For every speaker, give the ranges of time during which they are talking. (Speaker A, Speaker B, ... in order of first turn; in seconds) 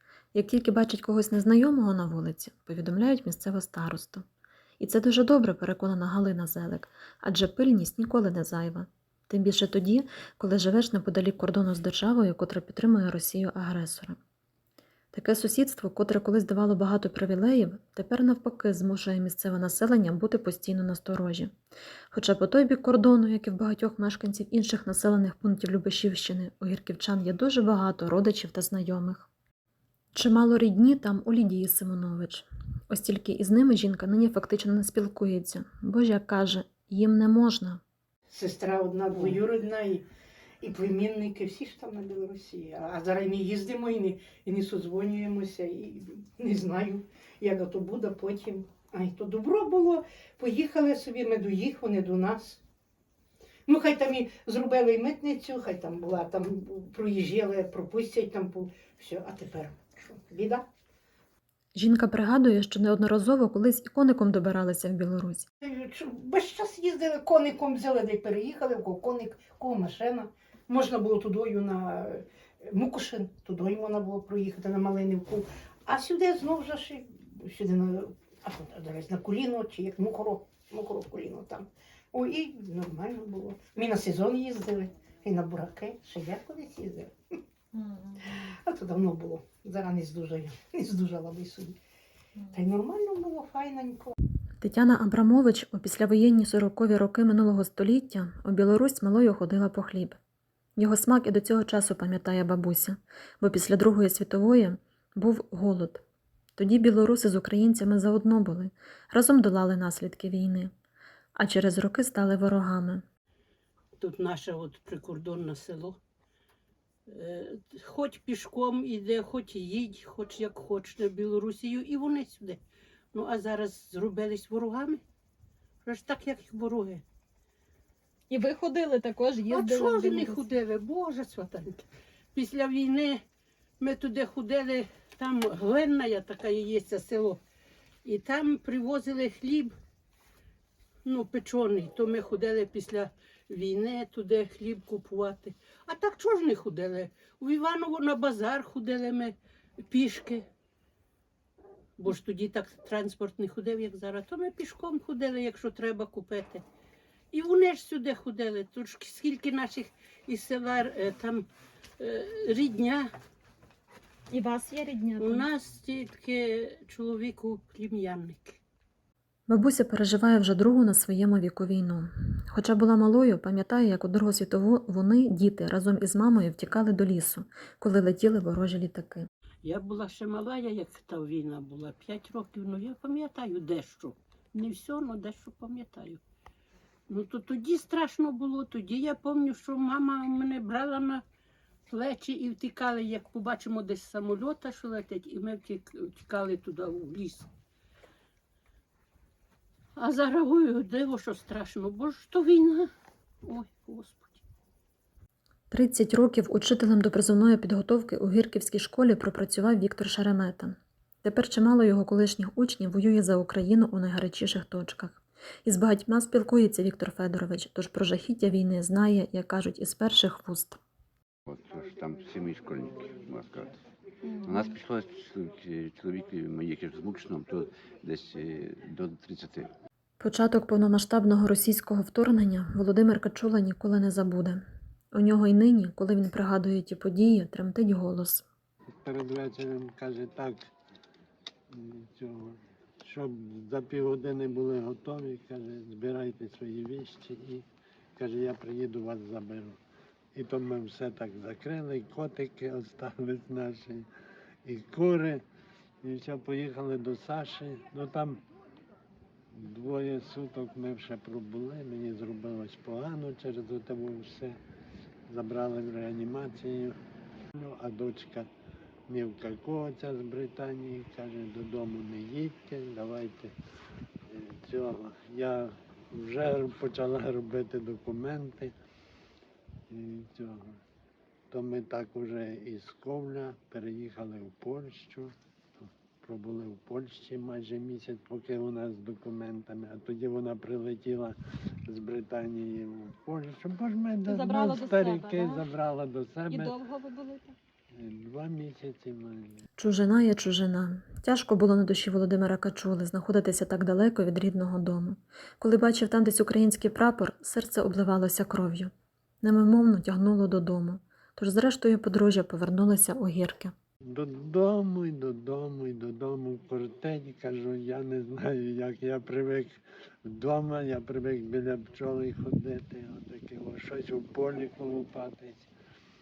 Speaker A: 0.3-4.2, 4.8-14.2, 15.1-21.5, 22.1-29.3, 30.1-37.8, 61.8-65.5, 94.6-100.2, 100.8-106.0, 106.6-110.7, 111.4-113.0, 169.5-179.3, 205.7-220.8, 230.2-234.6, 235.1-238.4, 299.8-308.9, 309.4-313.7
Speaker B: 38.3-40.0, 40.6-52.6, 53.7-60.7, 65.6-87.1, 88.4-91.8, 92.5-94.1
Speaker C: 114.0-116.0, 117.1-122.6, 123.1-125.0, 125.8-127.0, 129.5-133.2, 133.8-137.4, 138.1-139.7, 141.1-149.3, 149.9-150.5, 152.0-156.6, 157.3-161.5, 162.0-163.1, 165.2-168.6, 179.6-186.2, 187.1-191.2, 191.9-197.5, 200.0-202.9, 203.4-204.4
Speaker D: 128.3-130.5, 164.3-165.5, 224.3-224.8, 294.3-295.7, 296.5-297.6
Speaker E: 221.5-223.8, 224.4-229.7
Speaker F: 239.0-240.7, 241.7-249.8, 250.3-254.1, 254.7-255.4, 256.0-258.4, 259.5-264.6, 265.3-266.9, 267.5-268.5, 269.1-273.5, 274.3-278.7, 279.9-280.8, 281.5-291.4, 291.9-296.8, 297.9-299.6, 314.1-325.7